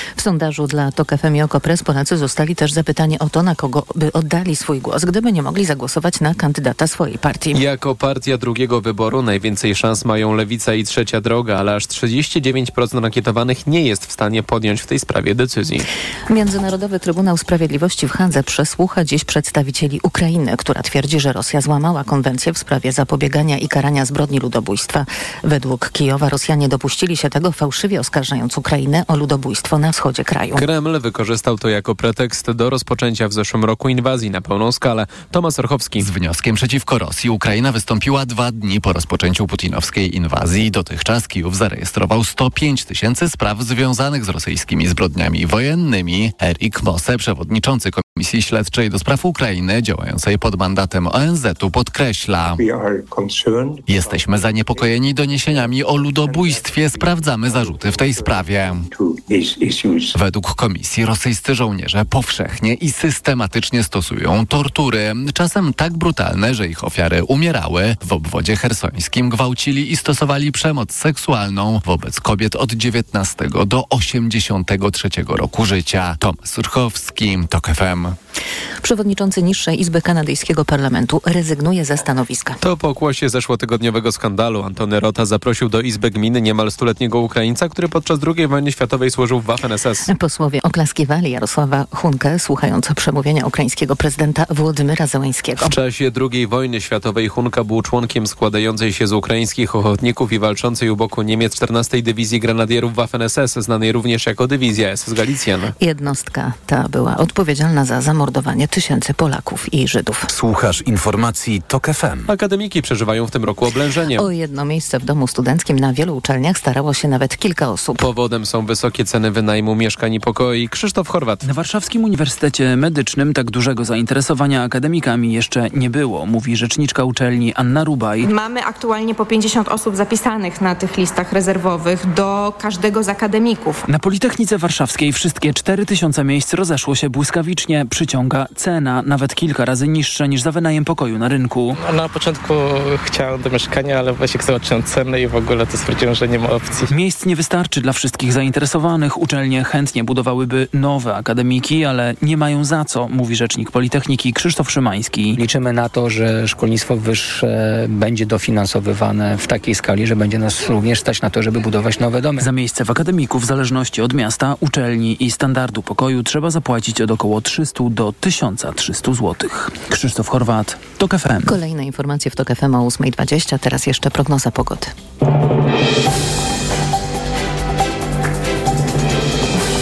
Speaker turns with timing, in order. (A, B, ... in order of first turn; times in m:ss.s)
0:00.2-0:07.6 A
0:07.5-0:15.9 B
0:16.3-0:30.6 A
0:30.5-0:36.1 B
0:36.0-0:52.6 C
0:53.9-0:58.8 C
1:00.2-1:18.2 C
1:18.8-1:22.6 A
1:22.6-1:30.0 B
1:30.0-1:35.7 A
1:35.6-1:45.7 B
1:45.8-1:50.3 A
1:50.3-1:52.3 C
1:52.3-1:54.3 B
1:54.2-1:58.0 A
1:58.0-2:01.4 B
2:01.4-2:08.3 D
2:08.2-2:13.8 E
2:13.9-2:21.8 D
2:21.9-2:26.8 F
2:26.9-2:35.4 D
2:35.4-2:42.5 G
2:42.4-2:51.5 D
2:51.4-2:54.9 A